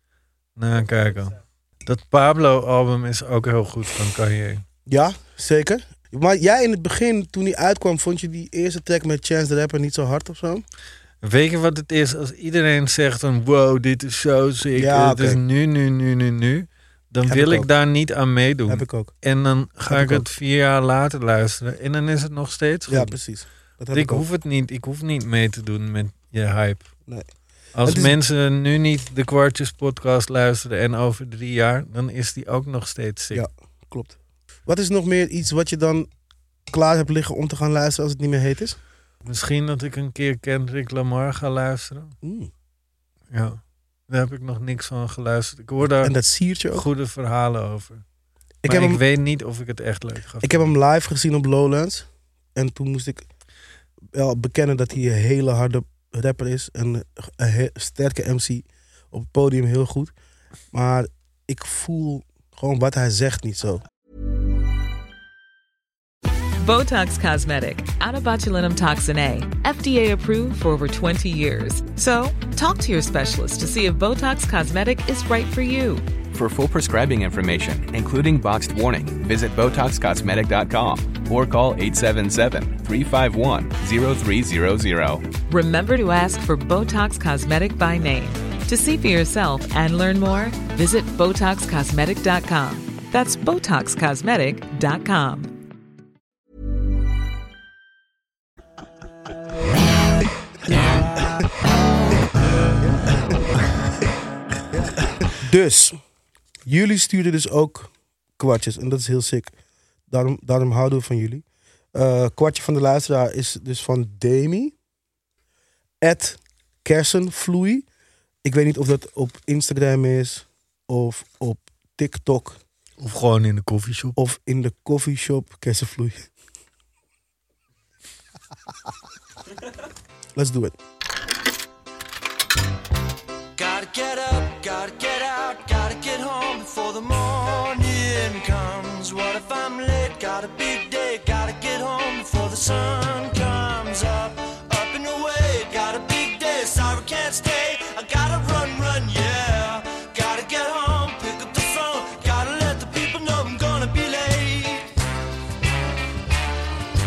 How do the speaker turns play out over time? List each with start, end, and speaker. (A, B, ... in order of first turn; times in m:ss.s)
0:00.6-0:04.6 A
0:04.9-0:10.6 B
0:11.2-0:23.1 A
0:14.7-0:15.4 B
0:17.3-0:17.7 B
0:18.7-0:19.1 B
0:19.9-0:20.3 B
0:22.9-0:24.3 B
0:23.9-0:26.9 A
0:27.7-0:33.4 A
0:27.8-0:28.2 B
0:33.3-0:36.1 B
0:36.7-0:38.8 B
0:39.2-0:42.1 A
0:42.2-0:42.5 B
0:43.3-0:46.1 A
0:46.0-0:46.8 B
0:46.7-0:48.0 A
0:48.6-0:49.0 B
0:48.6-0:50.7 A
0:50.4-0:53.2 B
0:54.1-1:00.1 B
1:00.7-1:03.8 B
1:06.6-1:16.0 C
1:16.3-1:25.2 D
1:25.5-1:35.5 C
1:45.3-1:46.0 B
1:46.6-1:49.5 B
1:50.1-1:54.7 B
1:56.0-1:57.8 B
1:58.4-2:02.6 B
2:03.0-2:04.2 A
2:04.2-2:06.2 B
2:10.4-2:10.7 B
2:13.6-2:34.9 E